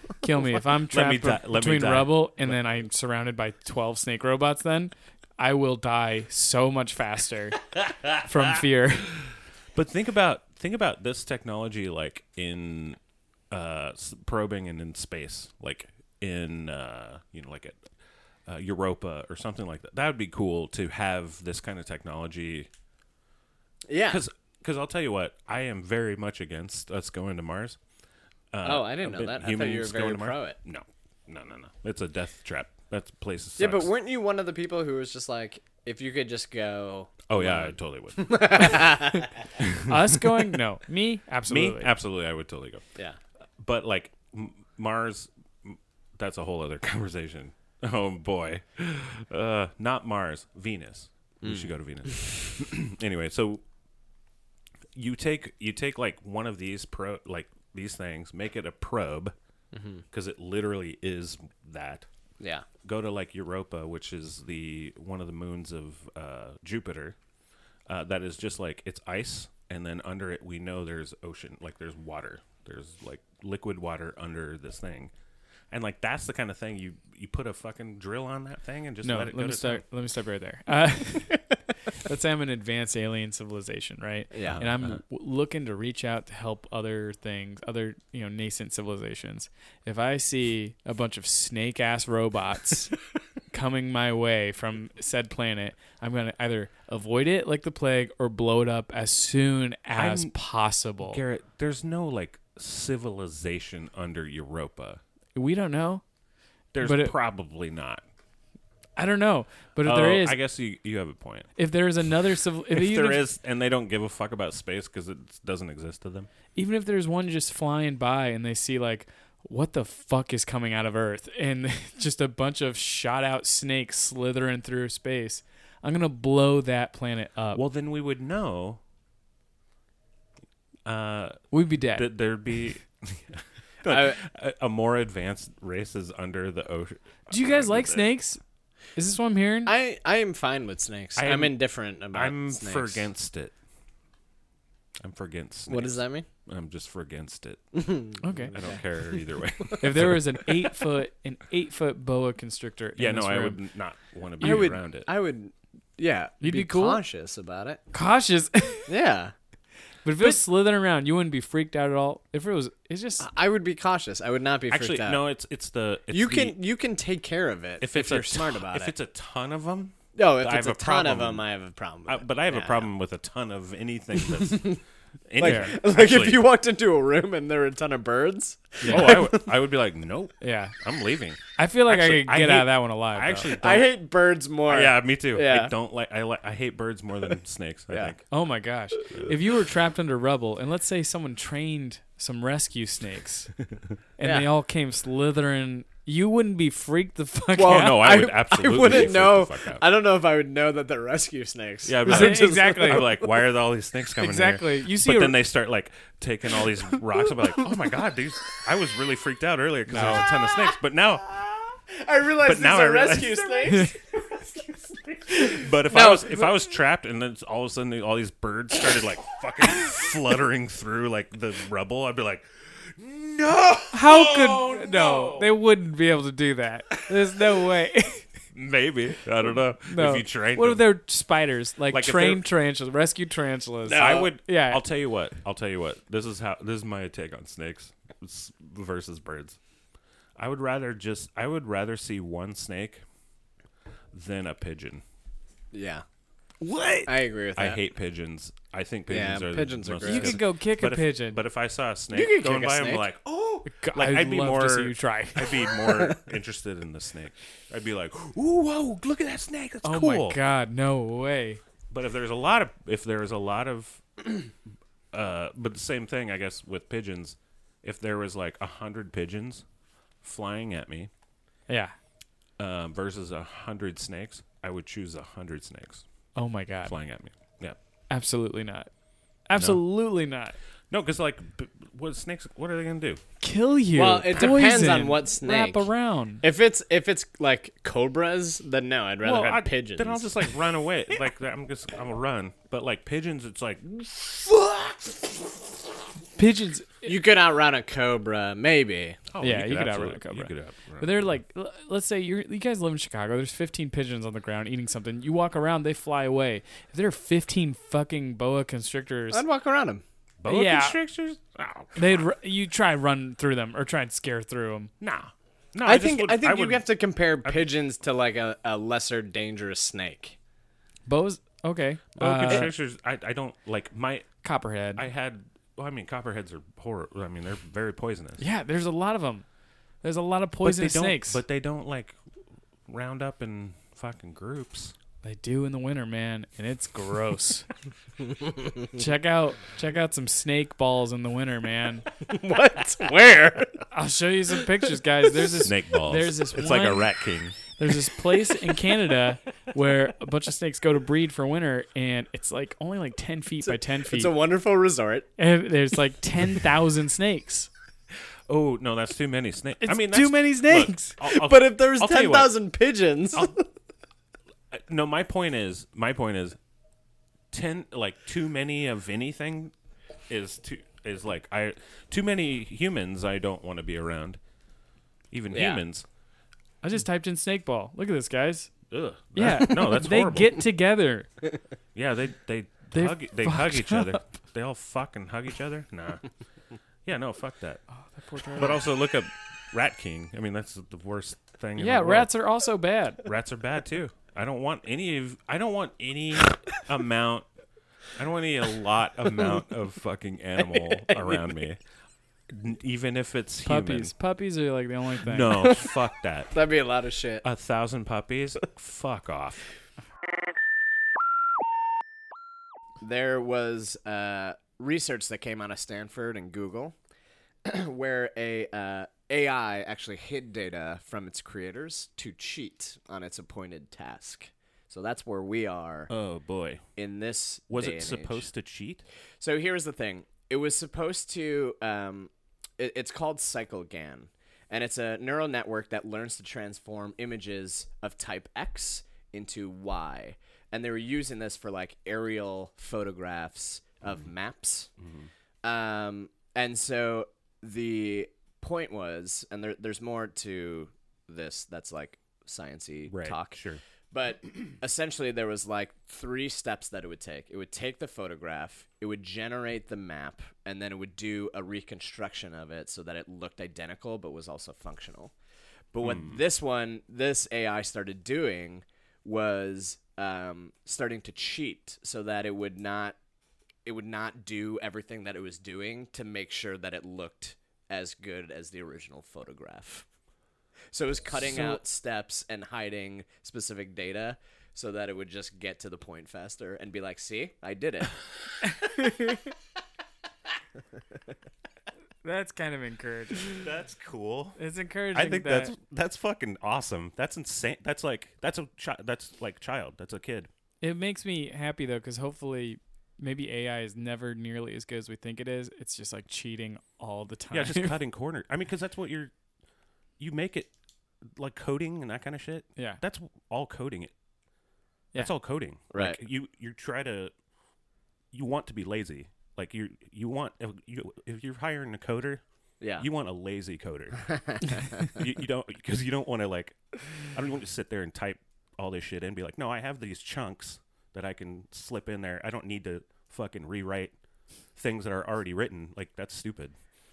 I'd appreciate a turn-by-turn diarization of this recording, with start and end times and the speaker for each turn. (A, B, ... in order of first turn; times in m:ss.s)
0:00.2-0:09.1 A
0:00.9-0:02.6 B
0:09.2-0:13.0 B
0:13.5-0:17.8 B
0:18.5-0:22.7 B
0:23.9-0:24.2 C
0:24.1-0:27.8 B
0:28.5-0:33.9 B
0:28.6-0:30.6 C
0:33.6-0:39.5 C
0:37.3-0:38.9 B
0:38.6-0:39.2 A
0:39.6-0:40.2 B
0:39.8-0:41.9 A
0:41.5-0:42.8 B
0:43.6-0:53.6 B
0:51.4-0:51.7 C
0:54.9-0:59.3 B
0:59.7-1:00.0 C
1:00.1-1:02.1 B
1:02.4-1:02.6 C
1:02.8-1:07.2 B
1:07.9-1:15.1 B
1:15.7-1:19.8 B
1:19.0-1:33.0 A
1:24.3-1:24.6 C
1:24.4-1:25.0 B
1:33.5-1:41.2 A
1:40.0-1:40.4 B
1:41.0-1:45.0 B
1:45.3-1:46.0 A
1:46.7-1:48.0 B
1:46.8-1:47.1 A
1:49.0-1:50.4 A
1:49.8-1:51.5 B
1:51.6-1:53.2 A
1:52.7-1:56.3 B
1:56.5-2:07.6 A
2:07.5-2:08.8 B
2:10.8-2:18.1 B
2:11.5-2:12.1 A
2:13.8-2:14.2 C
2:17.3-2:18.4 A
2:18.9-2:19.7 A
2:19.6-2:23.0 C
2:21.2-2:23.5 B
2:25.0-2:30.5 B
2:25.7-2:26.2 C
2:27.8-2:29.8 C
2:28.2-2:28.5 A
2:29.8-2:33.6 A
2:33.0-2:35.1 B
2:34.4-2:37.8 C
2:34.4-2:34.7 A
2:36.4-2:37.0 A
2:37.9-2:38.9 A
2:38.9-2:39.3 C
2:40.0-2:43.3 A
2:43.2-2:45.2 C
2:44.7-2:46.6 B
2:46.1-2:48.9 C
2:47.8-2:51.4 B
2:50.1-2:52.9 C
2:52.0-2:56.4 B
2:54.2-2:54.8 C
2:55.4-2:59.5 C
2:55.4-2:55.7 A
2:58.8-2:59.2 A
2:58.8-3:03.9 B
3:00.4-3:00.7 A
3:01.6-3:03.5 A
3:03.5-3:05.7 C
3:04.7-3:08.2 B
3:08.3-3:13.5 A
3:14.2-3:18.1 A
3:14.2-3:14.5 C
3:17.5-3:23.4 C
3:17.6-3:19.8 B
3:21.8-3:31.8 B
3:22.0-3:23.1 A
3:24.2-3:25.4 A
3:29.9-3:30.2 A
3:31.9-3:36.5 C
3:32.4-3:33.9 B
3:33.6-3:33.9 A
3:35.3-3:45.5 B
3:43.9-3:48.3 A
3:47.1-3:47.3 B
3:48.5-3:50.8 B
3:49.8-3:54.8 A
3:51.9-3:52.5 B
3:53.9-3:59.6 B
3:54.0-3:54.2 C
4:00.4-4:03.0 B
4:04.1-4:05.0 B
4:05.7-4:06.0 C
4:06.6-4:20.4 B
4:07.1-4:07.8 C
4:09.1-4:10.4 C
4:10.0-4:11.4 A
4:12.1-4:13.1 C
4:13.6-4:15.6 A
4:15.8-4:16.2 C
4:19.8-4:21.6 A
4:21.9-4:24.4 B
4:25.1-4:29.6 B
4:30.2-4:31.1 B
4:31.7-4:31.9 A
4:32.6-4:36.0 B
4:36.3-4:36.9 A
4:36.8-4:37.8 B
4:38.1-4:38.9 A
4:39.5-4:40.6 A
4:39.6-4:39.8 B
4:40.9-4:43.2 B
4:43.4-4:46.4 A
4:44.0-4:45.9 C
4:46.4-4:50.6 C
4:49.2-4:55.5 B
4:56.4-4:57.1 A
4:57.0-4:59.2 C
4:59.3-5:01.3 B
4:59.4-5:09.4 A
5:09.3-5:10.0 C
5:10.4-5:12.2 B
5:10.5-5:11.0 A
5:12.0-5:14.9 A
5:15.0-5:16.8 B
5:15.8-5:20.4 C
5:21.1-5:22.7 A
5:22.2-5:24.3 B
5:24.4-5:25.0 A
5:24.9-5:28.4 B
5:28.4-5:29.4 A
5:30.0-5:31.4 A
5:30.6-5:32.2 B
5:32.9-5:34.9 B
5:35.2-5:37.7 A
5:38.9-5:42.0 A
5:42.2-5:43.8 C
5:43.9-5:47.1 A
5:45.6-5:47.6 B
5:47.7-5:54.3 A
5:53.6-5:55.3 C
5:55.4-5:57.7 A
5:58.5-6:02.5 B
5:59.8-6:01.1 A
6:01.2-6:03.6 C
6:03.3-6:03.6 B
6:04.7-6:06.6 B
6:07.5-6:09.7 B
6:10.3-6:14.4 B
6:15.3-6:16.0 B
6:15.5-6:15.8 C
6:16.8-6:18.7 A
6:18.9-6:20.6 B
6:19.3-6:21.3 A
6:21.9-6:26.2 B
6:22.9-6:24.2 A
6:27.0-6:27.8 B
6:27.9-6:28.8 A
6:28.5-6:32.3 B
6:31.8-6:33.2 A
6:33.2-6:37.4 B
6:38.1-6:41.8 B
6:40.6-6:41.4 C
6:42.5-6:44.1 B
6:43.6-6:45.7 A
6:45.2-6:46.5 B
6:46.5-6:47.4 C
6:47.4-6:49.6 B
6:53.0-6:57.0 C
6:57.6-7:06.1 C
7:06.1-7:06.8 B
7:07.0-7:08.5 C
7:07.7-7:09.0 B
7:09.4-7:24.9 C
7:25.0-7:25.3 B
7:25.6-7:33.6 C
7:33.1-7:33.8 B
7:34.1-7:45.3 C
7:45.9-7:53.2 C
7:46.0-7:46.4 B
7:53.8-8:00.1 C
8:00.9-8:08.1 C
8:08.6-8:09.5 A
8:12.2-8:13.6 A
8:13.4-8:14.6 B
8:14.6-8:15.7 A
8:15.1-8:20.5 B
8:20.8-8:27.9 A
8:27.5-8:29.3 B
8:30.2-8:30.7 B
8:31.4-8:34.1 B
8:32.8-8:33.0 A
8:35.2-8:37.3 B
8:35.9-8:36.2 C
8:38.3-8:42.4 B
8:42.8-8:43.0 C
8:43.0-8:54.2 B
8:44.5-8:44.8 C
8:54.7-8:56.8 B